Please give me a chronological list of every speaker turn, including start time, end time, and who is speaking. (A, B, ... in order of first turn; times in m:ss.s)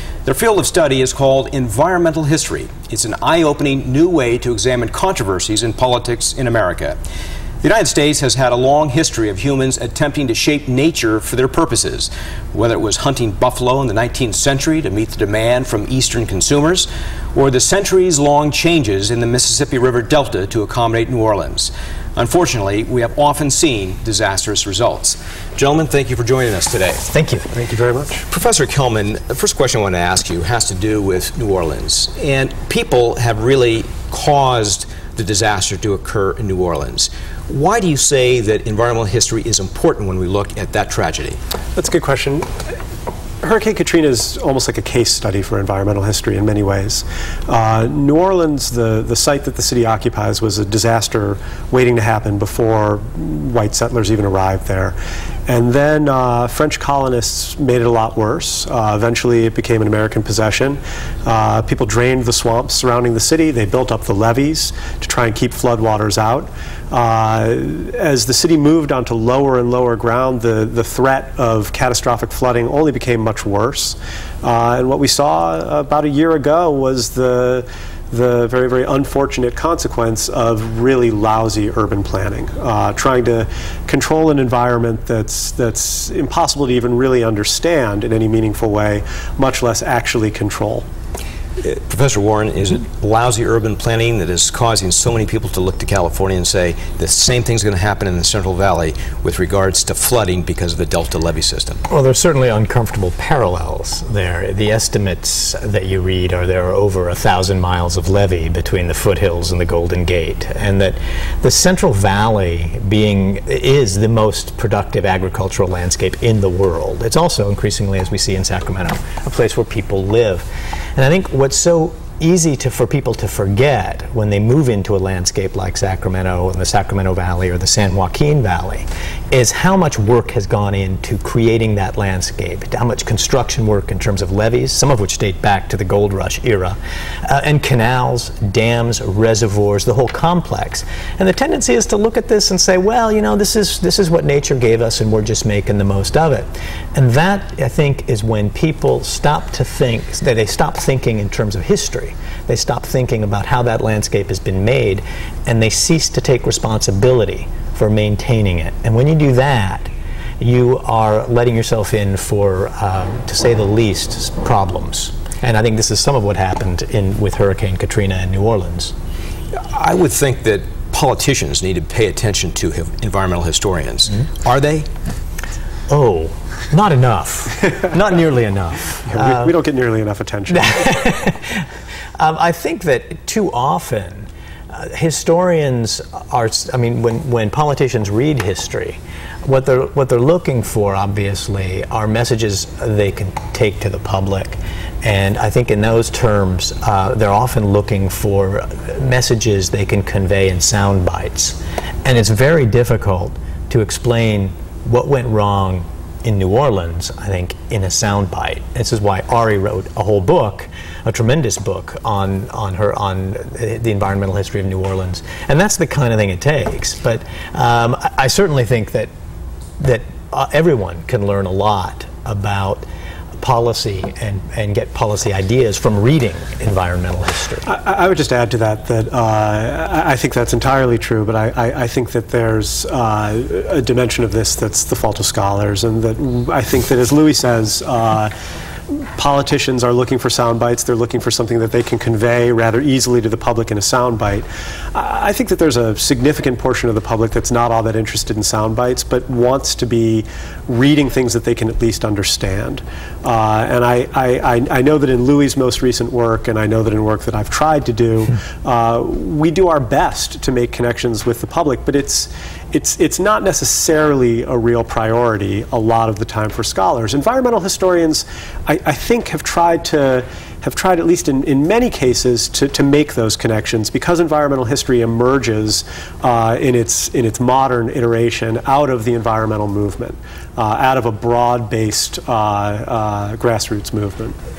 0:00.2-0:07.0 A
0:07.6-0:27.0 A
0:27.1-0:27.4 B
0:27.5-0:28.2 C
0:28.3-0:41.4 A
0:41.8-0:42.7 C
0:43.4-0:54.9 C
0:55.5-1:30.8 C
1:31.6-1:41.8 A
1:41.9-2:48.9 B
2:49.6-2:54.9 A
2:55.9-2:59.5 B
2:59.1-3:00.9 C
3:00.5-3:01.7 B
3:02.2-3:39.1 B
3:39.8-3:42.8 B
3:43.4-3:47.7 B
3:47.6-3:58.3 C
3:58.9-4:44.4 C